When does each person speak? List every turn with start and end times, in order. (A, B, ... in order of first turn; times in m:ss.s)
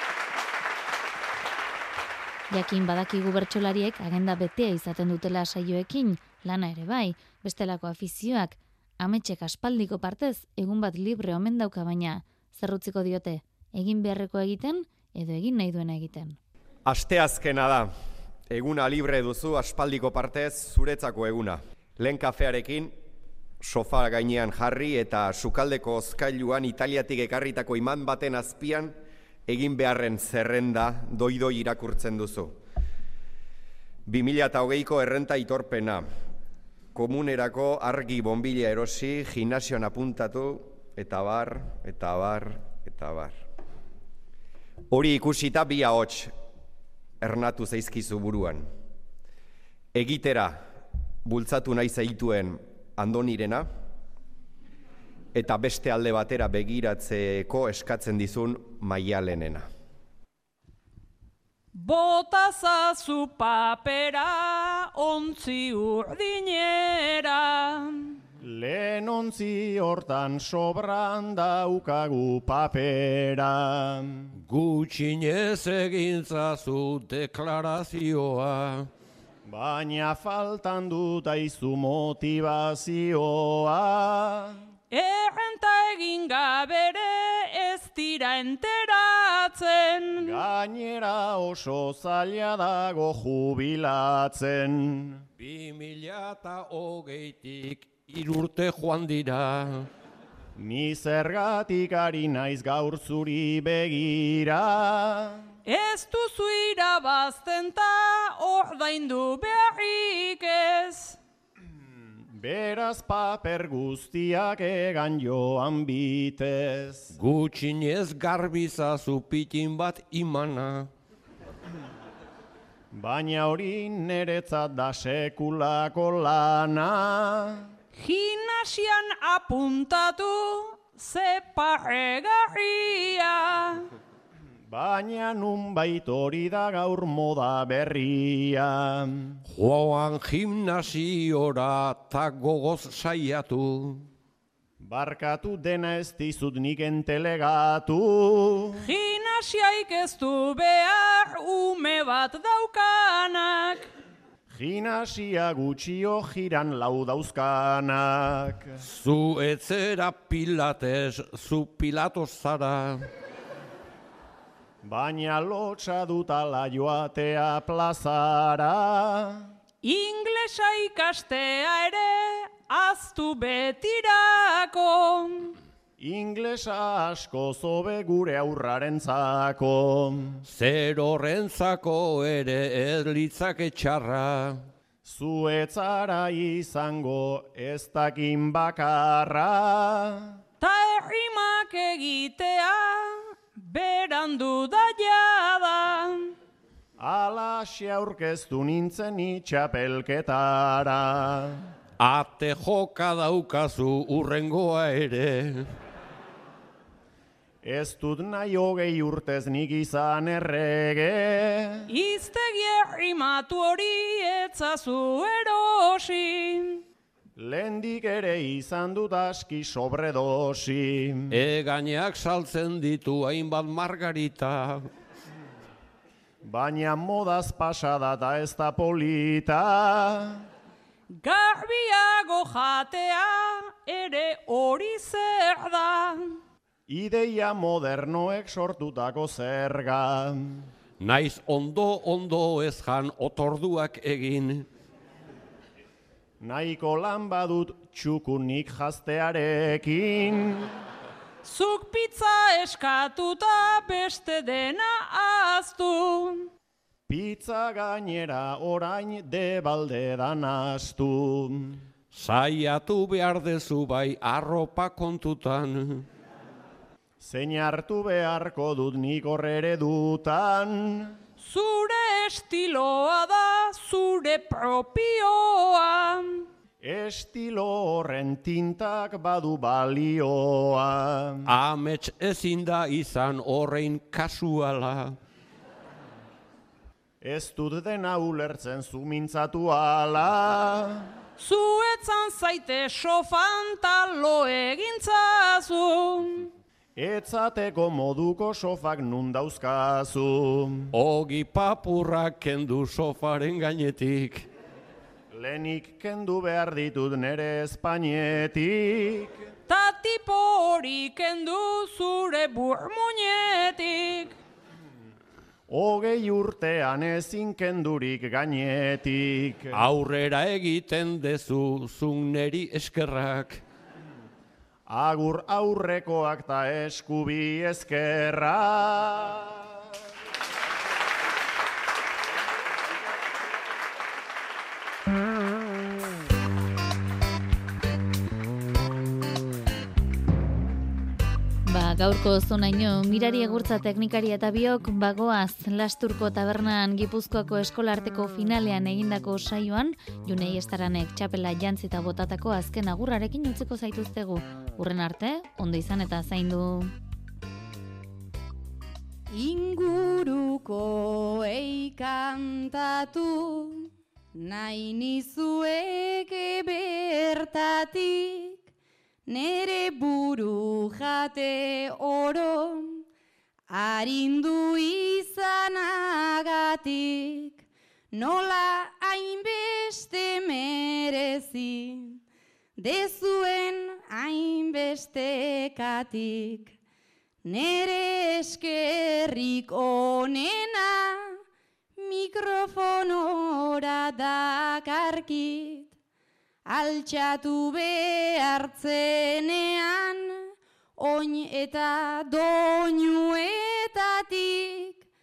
0:02.5-0:16.4 A
0:16.8-0:17.9 B
0:18.5-0:22.9 B
0:23.6-0:28.9 B
0:29.5-0:32.6 B
0:34.0-0:36.1 B
0:36.9-0:43.4 B
0:44.9-0:46.3 B
0:47.2-0:48.7 B
0:49.9-0:50.6 B
0:51.2-0:53.7 B
0:55.3-0:59.6 B
1:01.7-1:08.2 C
1:08.4-1:14.3 D
1:14.3-1:18.9 E
1:19.4-1:24.6 D
1:24.9-1:30.4 C
1:30.2-1:35.2 D
1:35.4-1:39.9 E
1:40.6-1:45.4 D
1:45.6-1:51.2 C
1:52.3-1:57.1 D
1:57.1-2:00.9 E
2:02.9-2:07.7 D
2:07.9-2:13.8 C
2:14.7-2:19.4 D
2:19.5-2:24.1 E
2:24.8-2:28.8 D
2:28.8-2:33.9 C
2:34.5-2:38.8 D
2:38.8-2:43.1 E
2:44.8-2:49.5 D
2:49.8-2:55.6 C
2:56.0-3:00.4 D
3:00.4-3:04.6 E
3:05.0-3:10.4 D
3:10.6-3:16.3 C
3:17.0-3:21.6 D
3:22.0-3:25.7 E
3:27.6-3:31.8 D
3:31.9-3:36.8 C
3:37.4-3:41.3 D
3:41.3-3:44.8 E
3:46.4-3:50.4 D
3:51.1-3:56.4 C
3:56.9-4:00.7 D
4:01.0-4:04.7 E
4:06.4-4:10.7 D
4:11.4-4:16.5 C
4:17.1-4:21.8 D
4:22.1-4:26.0 E
4:27.2-4:31.2 D
4:31.4-4:36.4 C
4:36.8-4:41.4 D
4:41.4-4:45.2 E
4:47.2-4:51.1 D
4:51.4-4:56.5 C
4:57.0-5:00.9 D
5:00.9-5:04.5 E
5:05.3-5:09.4 D
5:09.7-5:14.4 C
5:15.7-5:19.7 D
5:19.7-5:23.6 E
5:24.9-5:29.7 D
5:41.6-5:56.9 A
5:59.3-6:08.6 F
6:09.3-6:13.0 F
6:13.7-6:22.2 F
6:22.8-6:26.7 F
6:27.4-6:31.4 F
6:32.0-6:35.9 F
6:36.6-6:45.0 F